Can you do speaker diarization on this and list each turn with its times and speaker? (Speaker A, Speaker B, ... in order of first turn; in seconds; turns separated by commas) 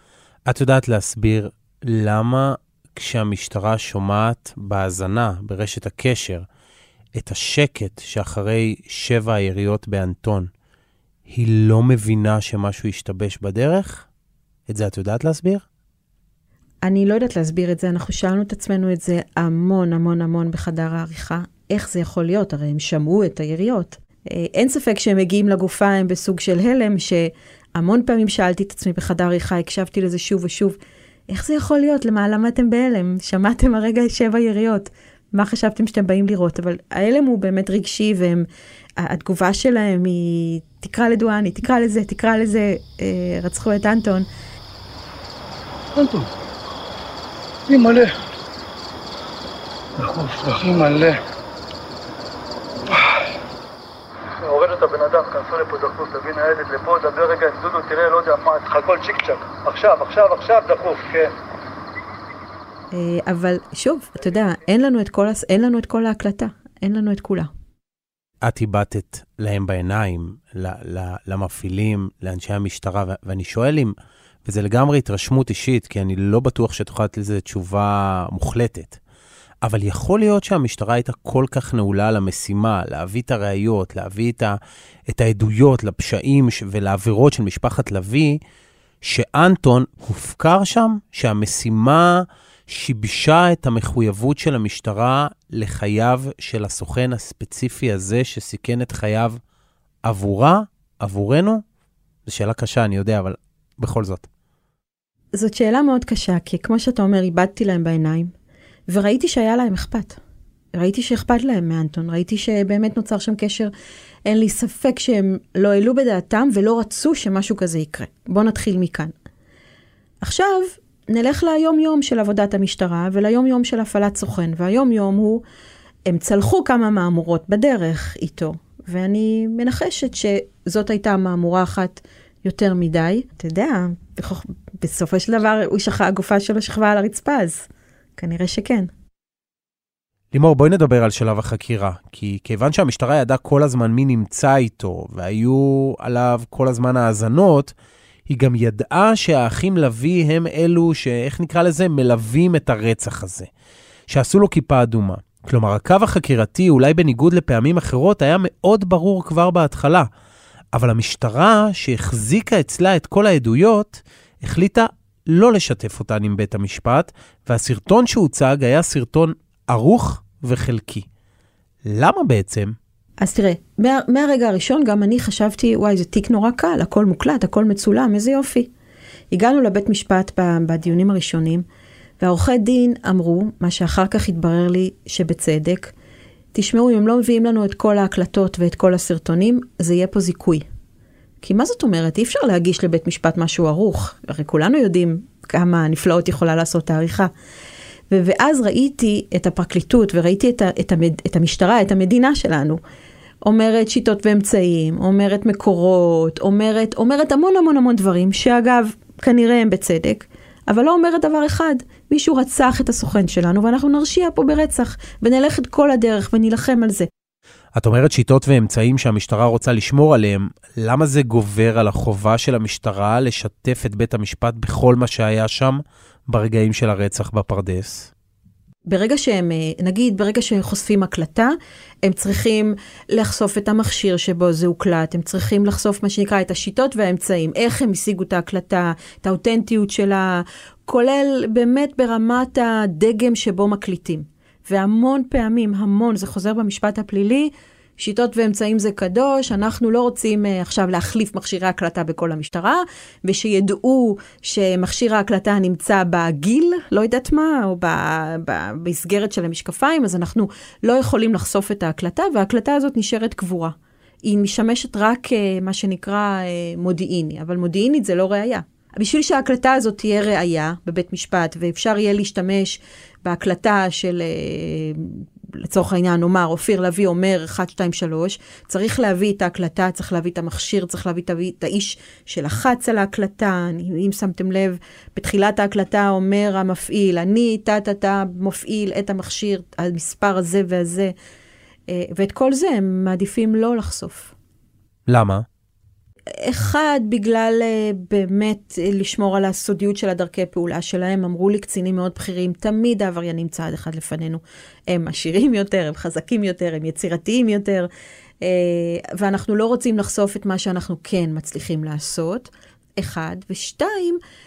Speaker A: 0.5-6.5, Speaker A: 7.2-10.5, Speaker A: 11.3-14.1, Speaker A: 14.7-15.6, Speaker B: 16.8-30.8, Speaker B: 31.3-38.5, Speaker B: 39.0-44.3, Speaker C: 46.0-46.3, Speaker C: 47.7-48.1, Speaker C: 50.0-51.2, Speaker C: 54.4-61.4, Speaker B: 62.9-67.5, Speaker A: 68.4-79.0, Speaker A: 79.6-88.4, Speaker A: 89.0-99.4, Speaker A: 100.0-101.6, Speaker A: 102.2-104.3, Speaker B: 105.3-108.3, Speaker B: 108.9-110.2, Speaker B: 110.7-113.7, Speaker B: 114.2-119.1, Speaker B: 120.2-125.4, Speaker B: 126.1-138.9, Speaker A: 140.3-147.7, Speaker A: 148.3-153.5, Speaker A: 154.1-160.1, Speaker A: 160.7-171.1, Speaker A: 171.8-172.8, Speaker B: 173.2-178.7, Speaker B: 179.3-181.6, Speaker B: 182.2-185.9, Speaker B: 186.5-190.6, Speaker B: 191.4-197.3, Speaker B: 198.1-202.8, Speaker B: 203.4-217.1, Speaker A: 217.7-228.1, Speaker B: 228.9-291.1, Speaker B: 291.9-294.3, Speaker A: 295.1-295.4, Speaker B: 296.4-307.9, Speaker B: 308.4-314.2